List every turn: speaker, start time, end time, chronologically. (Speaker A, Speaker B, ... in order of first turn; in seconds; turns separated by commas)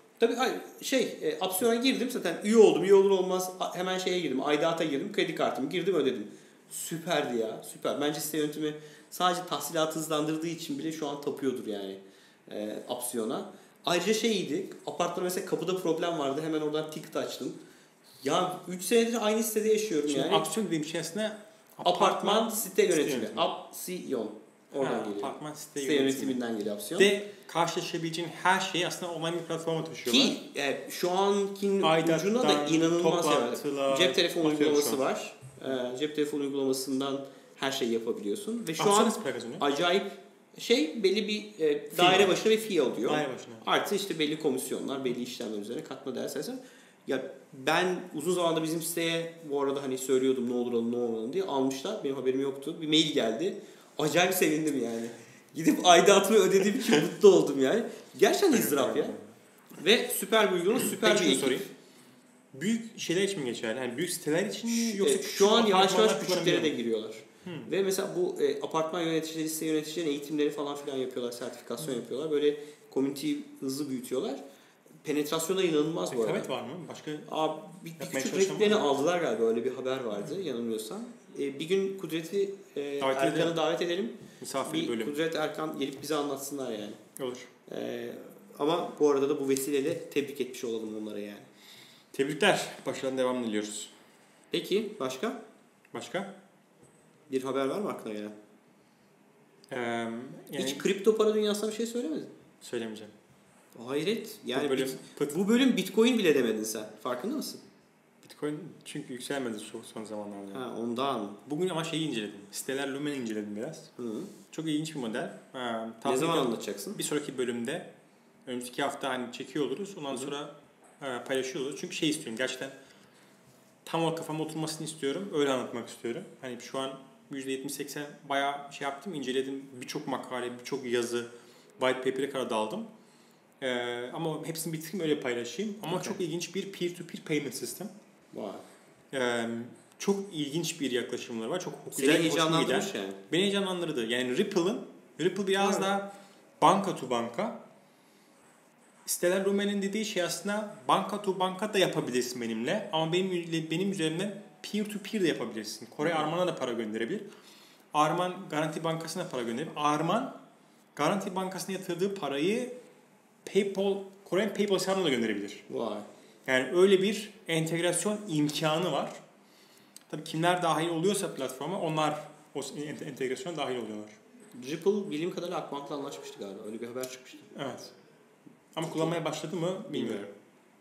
Speaker A: 0.2-17.6, Speaker A: 18.2-20.5, Speaker B: 20.1-23.6, Speaker A: 21.9-27.1, Speaker B: 24.8-26.4, Speaker B: 27.0-30.4, Speaker A: 30.1-59.2, Speaker B: 31.8-35.1, Speaker B: 38.8-39.6, Speaker B: 41.9-42.4, Speaker B: 43.0-43.7, Speaker B: 58.5-59.4, Speaker A: 59.8-61.6, Speaker B: 60.7-61.7, Speaker B: 62.5-66.8, Speaker A: 64.7-74.4, Speaker B: 67.4-67.7, Speaker A: 75.0-76.5, Speaker B: 76.1-77.3, Speaker A: 77.3-87.0, Speaker B: 78.0-78.9, Speaker B: 83.0-83.6, Speaker B: 84.4-85.1, Speaker B: 87.2-87.5, Speaker A: 87.7-91.5, Speaker B: 92.1-93.9, Speaker A: 94.5-95.4, Speaker B: 95.9-96.3, Speaker A: 97.3-98.3, Speaker B: 99.7-100.9, Speaker A: 100.6-102.3, Speaker B: 102.6-103.1, Speaker A: 103.7-107.6, Speaker B: 104.5-105.4, Speaker B: 108.2-110.6, Speaker A: 110.5-111.4, Speaker B: 111.5-113.9, Speaker A: 114.0-114.3, Speaker B: 114.5-117.9, Speaker A: 116.0-117.0, Speaker B: 118.5-122.8, Speaker B: 123.8-132.9, Speaker B: 133.6-137.9, Speaker A: 135.9-136.2, Speaker A: 138.3-138.6, Speaker B: 139.1-147.6, Speaker A: 141.9-143.2, Speaker A: 145.6-145.9, Speaker B: 149.1-157.2, Speaker B: 157.9-160.4, Speaker B: 161.0-162.8, Speaker B: 163.4-165.6, Speaker A: 165.7-166.1, Speaker B: 166.5-169.2, Speaker B: 170.1-174.2, Speaker A: 174.6-177.5, Speaker B: 177.6-177.9, Speaker B: 178.7-180.2, Speaker A: 178.8-179.1, Speaker A: 179.9-180.3